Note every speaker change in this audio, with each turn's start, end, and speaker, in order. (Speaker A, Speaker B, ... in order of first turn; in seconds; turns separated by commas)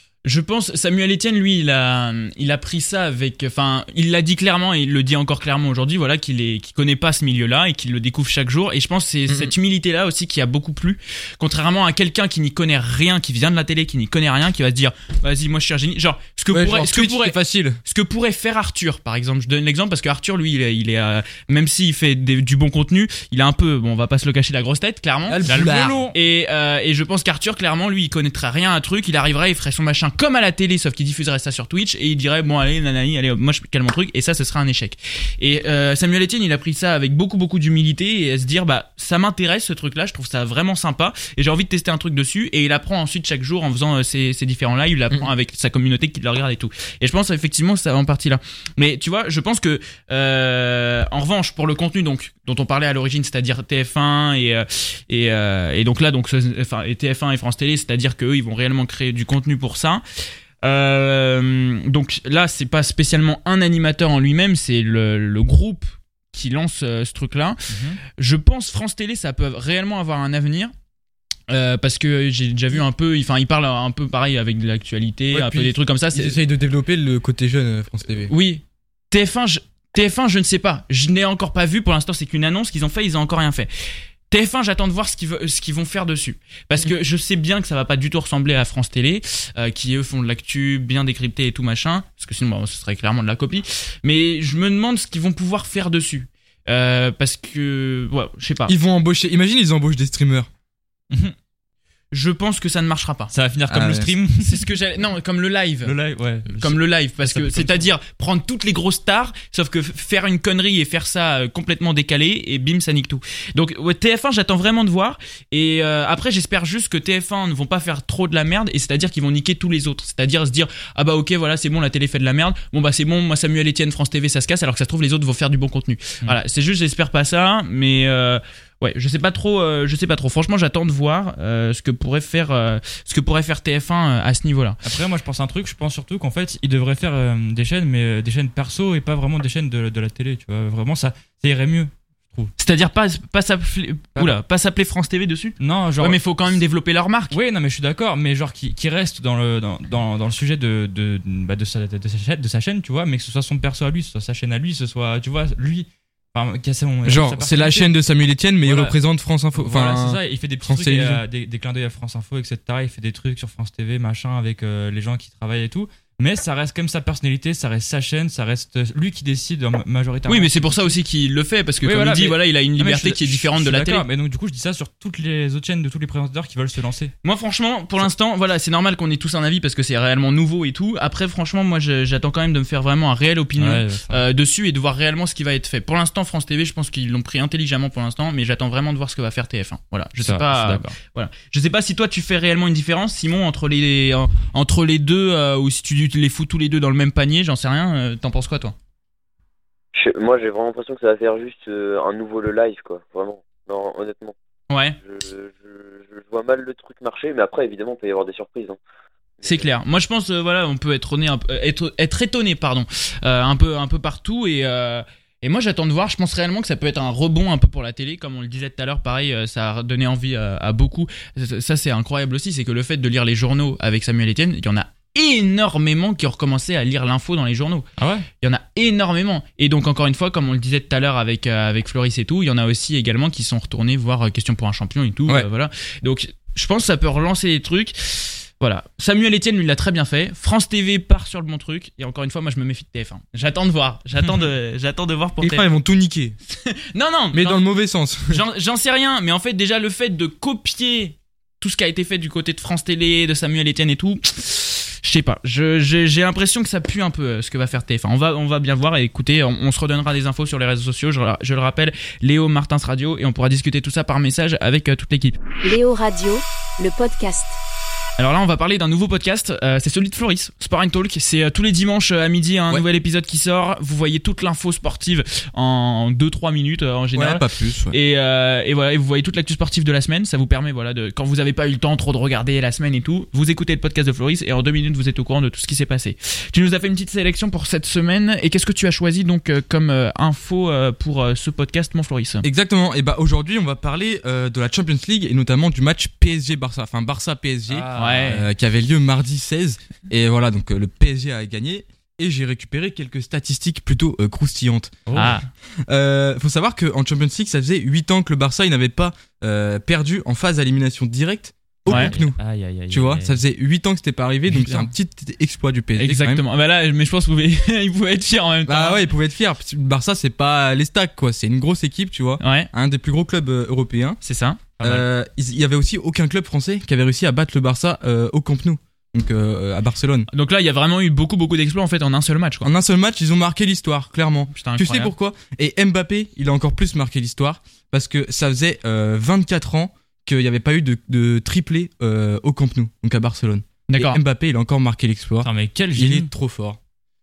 Speaker A: 0.2-60.0, Speaker B: 9.3-9.5, Speaker B: 16.5-17.8, Speaker B: 25.3-26.1, Speaker C: 25.5-26.1, Speaker A: 60.6-70.7, Speaker C: 67.7-68.0, Speaker A: 71.5-76.4, Speaker B: 75.3-78.3, Speaker A: 78.3-83.7, Speaker A: 84.3-98.8, Speaker B: 98.7-100.5, Speaker A: 102.1-103.3, Speaker C: 103.3-104.6, Speaker B: 103.7-104.1, Speaker A: 104.4-106.0, Speaker C: 105.8-107.9, Speaker A: 106.6-134.8, Speaker C: 134.8-142.5, Speaker A: 142.6-147.4, Speaker C: 145.6-146.2, Speaker C: 147.3-157.9, Speaker B: 157.1-161.2, Speaker C: 158.6-159.0, Speaker C: 159.6-170.9, Speaker A: 170.3-174.1, Speaker C: 171.8-177.1, Speaker A: 177.2-198.8, Speaker C: 183.6-184.2, Speaker C: 190.2-190.9, Speaker D: 199.9-204.3, Speaker A: 204.7-205.0, Speaker D: 205.0-208.8, Speaker D: 209.4-209.7, Speaker A: 209.4-227.9, Speaker C: 228.0-228.3, Speaker A: 228.4-245.7, Speaker B: 245.4-246.4, Speaker A: 246.5-247.6, Speaker B: 247.3-248.4, Speaker A: 248.3-265.4, Speaker E: 265.6-267.6, Speaker A: 268.2-292.4, Speaker B: 277.1-278.0, Speaker B: 292.4-305.4, Speaker C: 297.7-298.3, Speaker A: 297.9-298.5, Speaker C: 305.1-305.4, Speaker A: 305.1-305.4, Speaker B: 305.9-312.4, Speaker C: 311.9-313.4, Speaker A: 311.9-312.1, Speaker B: 312.9-316.4, Speaker C: 314.5-314.9, Speaker A: 316.0-319.1, Speaker B: 318.7-324.2, Speaker A: 322.4-322.7, Speaker A: 324.2-325.1, Speaker B: 324.8-330.3, Speaker A: 330.3-332.7, Speaker B: 332.6-346.8, Speaker A: 334.5-335.1, Speaker A: 343.9-344.2, Speaker C: 345.4-346.3